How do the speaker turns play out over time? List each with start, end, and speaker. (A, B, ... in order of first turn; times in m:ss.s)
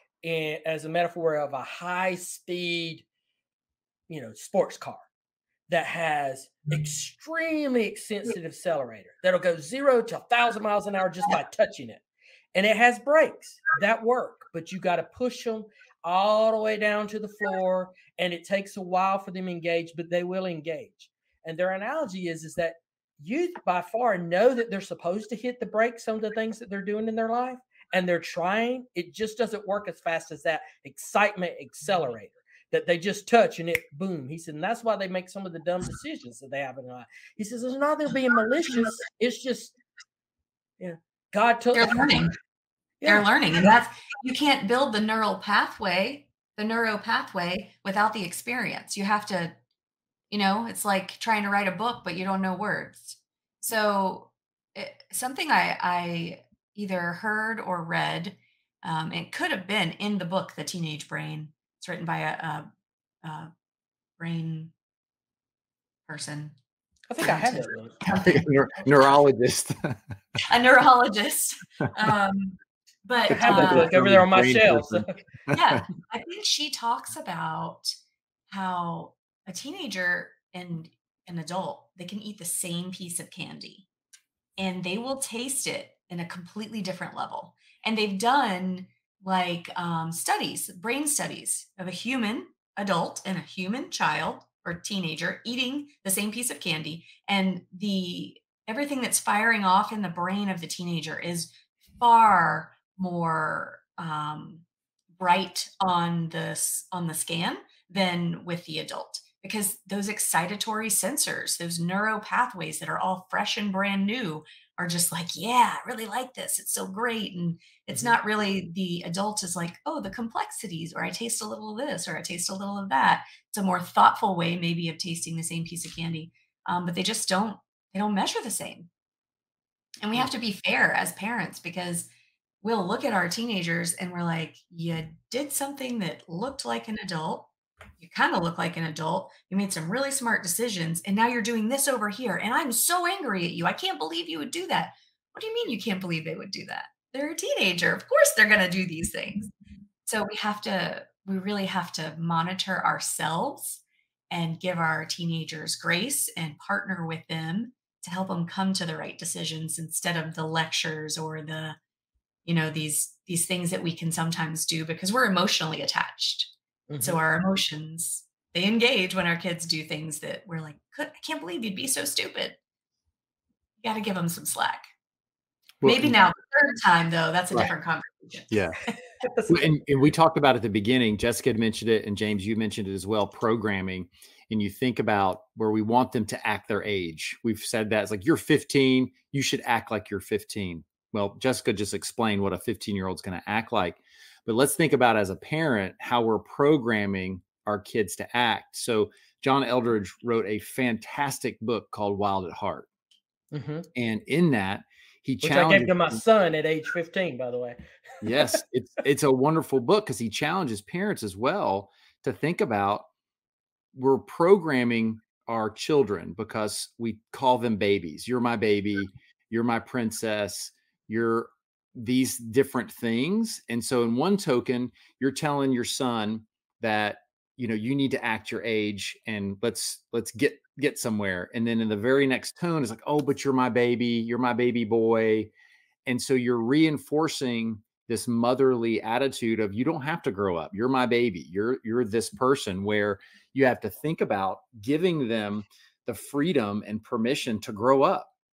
0:00.2-0:03.0 A
0:04.1-0:05.0 A
0:05.7-0:12.0 A
0:12.5-0:39.7 A
0:40.8-0:42.2 A
0:41.7-0:42.3 B
0:43.0-0:43.7 A
0:43.0-0:49.5 B
0:50.3-1:02.7 B
1:03.2-1:03.5 B
1:04.2-1:04.7 B
1:06.1-1:06.5 B
1:07.1-1:08.0 A
1:07.2-1:08.4 B
1:08.0-1:10.0 C
1:10.4-1:13.9 B
1:13.3-1:15.6 C
1:13.3-1:15.1 A
1:15.5-1:17.9 B
1:18.5-1:23.9 B
1:24.6-1:44.6 B
1:45.2-2:08.9 B
2:10.0-2:12.1 B
2:12.6-2:29.5 B
2:30.1-2:41.8 B
2:42.4-2:52.6 B
2:46.9-2:47.2 A
2:53.8-2:54.9 B
2:55.8-2:56.2 C
2:55.8-2:59.0 B
2:58.5-2:58.8 C
2:59.3-2:59.6 A
2:59.5-3:22.9 C
3:23.5-3:23.9 A
3:23.9-3:26.2 C
3:25.4-3:28.6 A
3:28.2-3:33.1 C
3:33.9-3:55.5 C
3:56.0-4:08.3 C